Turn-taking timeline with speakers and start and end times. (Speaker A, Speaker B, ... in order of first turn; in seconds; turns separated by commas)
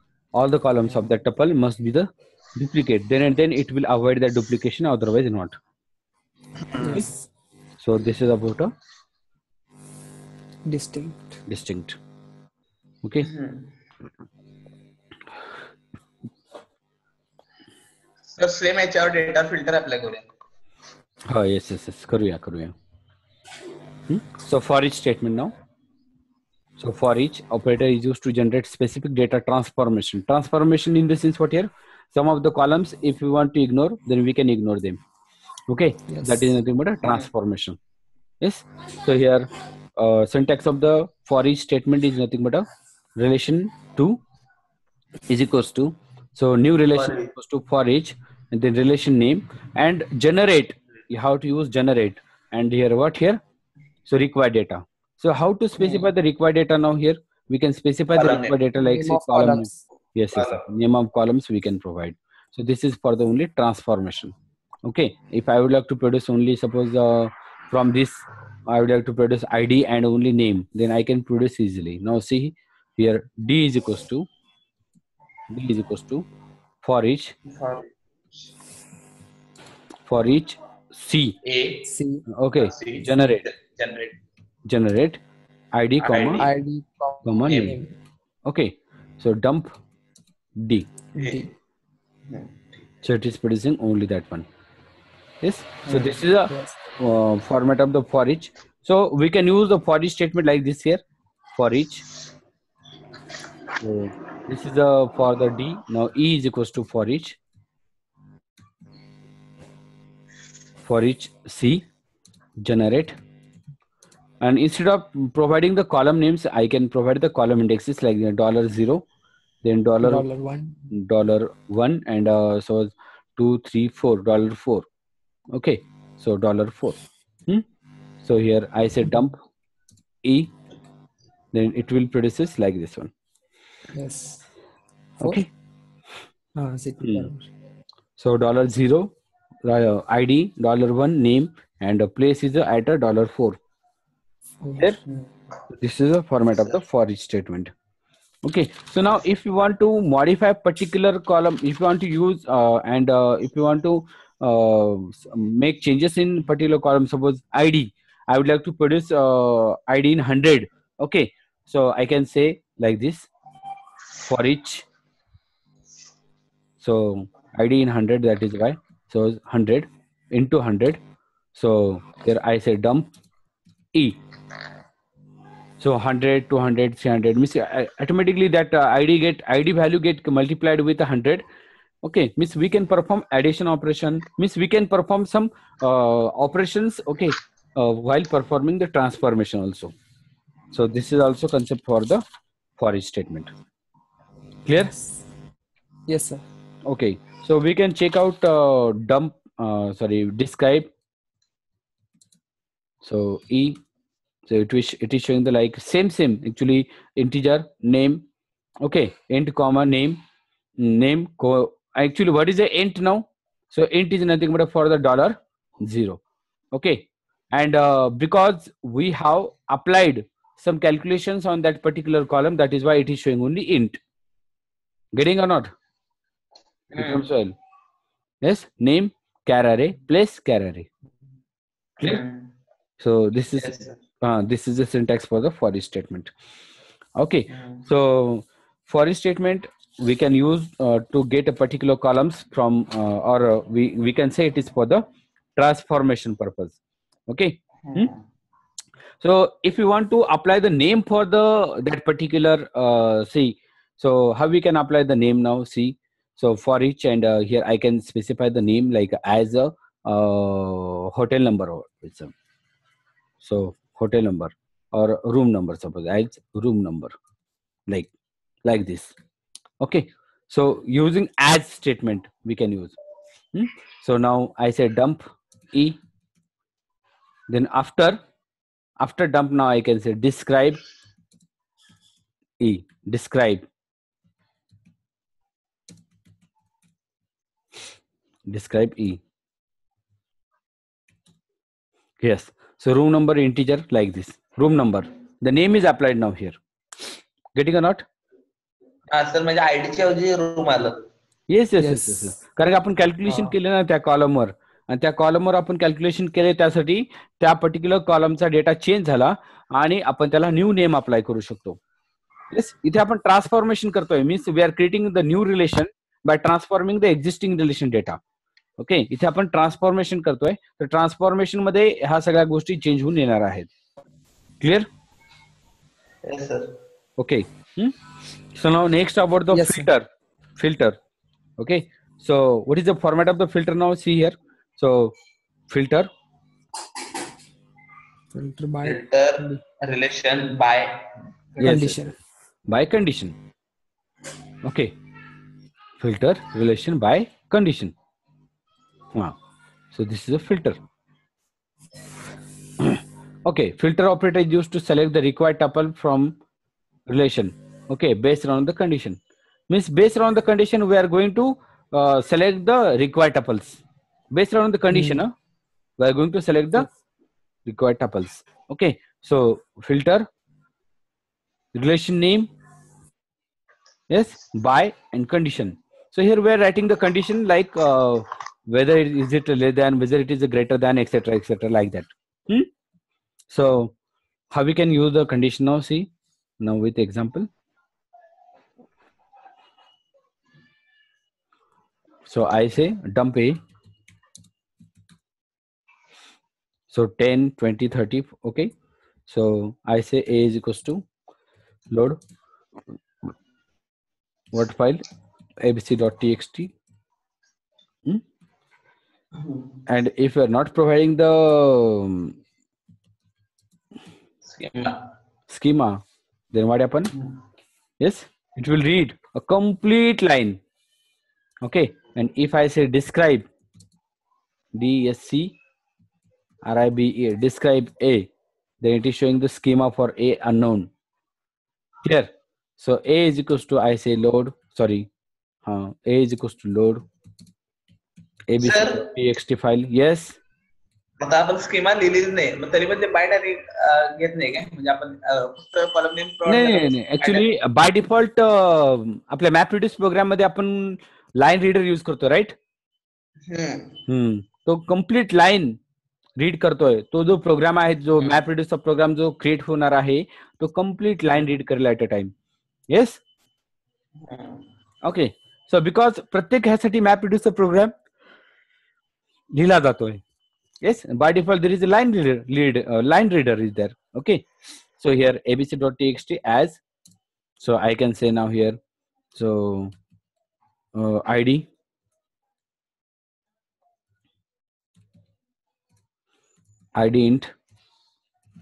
Speaker A: 0.3-5.6, Speaker B: 6.8-7.2, Speaker A: 7.8-8.7, Speaker B: 10.7-11.4, Speaker A: 11.5-12.0, Speaker A: 13.0-13.3, Speaker C: 13.2-13.7, Speaker C: 18.3-20.3, Speaker A: 21.3-22.8, Speaker A: 24.1-25.5, Speaker A: 26.8-35.0, Speaker A: 35.7-37.8, Speaker B: 36.1-36.5, Speaker A: 38.4-44.2, Speaker A: 45.3-53.4, Speaker C: 46.9-47.3, Speaker A: 54.1-74.3, Speaker C: 58.1-58.6, Speaker B: 58.8-59.8, Speaker C: 60.4-60.6, Speaker A: 75.5-76.2, Speaker A: 76.8-77.3, Speaker C: 77.5-77.9, Speaker A: 80.1-81.4, Speaker C: 81.4-81.9, Speaker B: 81.9-82.2, Speaker A: 82.3-83.5, Speaker C: 82.6-84.2, Speaker A: 84.7-85.2, Speaker A: 85.7-86.5, Speaker C: 86.0-86.5, Speaker B: 86.4-87.9, Speaker A: 87.2-87.8, Speaker C: 87.5-87.8, Speaker A: 88.5-89.8, Speaker A: 90.6-90.9, Speaker B: 91.1-91.5, Speaker C: 91.2-91.5, Speaker C: 92.3-92.7, Speaker A: 93.0-94.5, Speaker A: 95.4-101.0, Speaker C: 95.9-96.2, Speaker B: 96.5-96.8, Speaker A: 101.5-102.0, Speaker A: 103.8-107.4, Speaker A: 110.9-111.8, Speaker A: 112.6-113.2, Speaker A: 114.4-119.1, Speaker A: 119.6-120.2, Speaker B: 120.0-120.9, Speaker A: 120.9-124.9, Speaker A: 125.5-127.7, Speaker A: 128.2-129.4, Speaker A: 130.2-130.5, Speaker A: 131.5-133.1, Speaker B: 133.9-134.4, Speaker A: 135.2-135.5, Speaker B: 136.6-137.5, Speaker A: 137.0-137.3, Speaker A: 138.2-139.1, Speaker A: 139.6-143.6, Speaker B: 144.6-145.0, Speaker A: 145.7-147.7, Speaker A: 148.4-163.3, Speaker A: 164.2-164.9, Speaker A: 166.8-171.0, Speaker A: 171.6-173.1, Speaker A: 173.9-174.2, Speaker A: 175.8-181.4, Speaker A: 182.0-189.9, Speaker A: 190.7-192.2, Speaker A: 192.8-193.5, Speaker A: 194.7-194.9, Speaker B: 196.1-196.4, Speaker A: 196.8-200.9, Speaker A: 203.0-203.8, Speaker A: 204.5-208.2, Speaker A: 208.8-210.2, Speaker A: 210.8-216.2, Speaker A: 216.7-224.0, Speaker A: 225.1-225.7, Speaker C: 226.9-227.2, Speaker A: 226.9-227.6, Speaker A: 228.4-230.9, Speaker C: 232.0-232.5, Speaker A: 233.0-236.3, Speaker C: 233.5-234.0, Speaker A: 237.2-245.0, Speaker C: 237.5-237.8, Speaker A: 245.6-248.1, Speaker C: 247.8-248.2, Speaker A: 249.2-262.3, Speaker A: 263.4-267.2, Speaker A: 268.6-269.1, Speaker A: 269.8-273.0, Speaker A: 273.5-276.0, Speaker A: 277.5-278.2, Speaker A: 279.0-280.8, Speaker A: 282.6-283.7, Speaker A: 288.5-289.2, Speaker A: 292.2-296.6, Speaker A: 297.5-298.1, Speaker C: 299.1-301.1, Speaker A: 301.5-311.8, Speaker B: 301.8-302.4, Speaker C: 303.3-303.5, Speaker A: 312.5-318.2, Speaker A: 318.8-323.7, Speaker A: 324.6-324.9, Speaker C: 326.2-326.8, Speaker A: 327.2-327.9, Speaker A: 328.5-331.0, Speaker B: 329.5-329.9, Speaker A: 331.6-335.1, Speaker A: 335.7-336.1, Speaker B: 338.3-339.6, Speaker C: 338.8-341.1, Speaker A: 341.6-342.1, Speaker B: 341.6-342.1, Speaker A: 342.7-343.4, Speaker A: 344.6-344.9, Speaker A: 346.0-347.9, Speaker A: 349.9-350.8, Speaker A: 352.8-356.4, Speaker A: 357.1-365.3, Speaker B: 364.9-365.2, Speaker A: 366.0-366.9, Speaker A: 367.6-370.3, Speaker A: 371.7-372.5, Speaker A: 374.1-382.7, Speaker A: 383.5-383.9, Speaker A: 384.5-386.1, Speaker A: 386.6-387.5, Speaker A: 392.2-393.6, Speaker A: 396.9-398.7, Speaker A: 399.3-401.0, Speaker A: 401.9-402.2, Speaker A: 404.5-405.0, Speaker A: 405.6-406.7, Speaker C: 409.4-409.7, Speaker A: 409.9-412.4, Speaker C: 414.4-415.0, Speaker A: 415.5-417.1, Speaker A: 418.0-420.6, Speaker A: 421.6-423.5, Speaker A: 424.7-425.5, Speaker A: 426.6-430.9, Speaker A: 432.0-435.1, Speaker A: 435.6-437.0, Speaker A: 438.5-440.4, Speaker C: 438.6-439.0, Speaker C: 441.2-447.4, Speaker A: 446.4-452.6, Speaker C: 453.5-454.0, Speaker A: 454.1-455.8, Speaker A: 456.4-462.3, Speaker A: 462.9-463.2, Speaker C: 464.2-464.6, Speaker A: 465.0-467.9, Speaker A: 469.5-470.2, Speaker A: 470.8-474.4, Speaker A: 475.0-476.8, Speaker A: 477.6-478.8, Speaker A: 479.3-479.9, Speaker A: 480.9-481.7, Speaker A: 487.0-487.5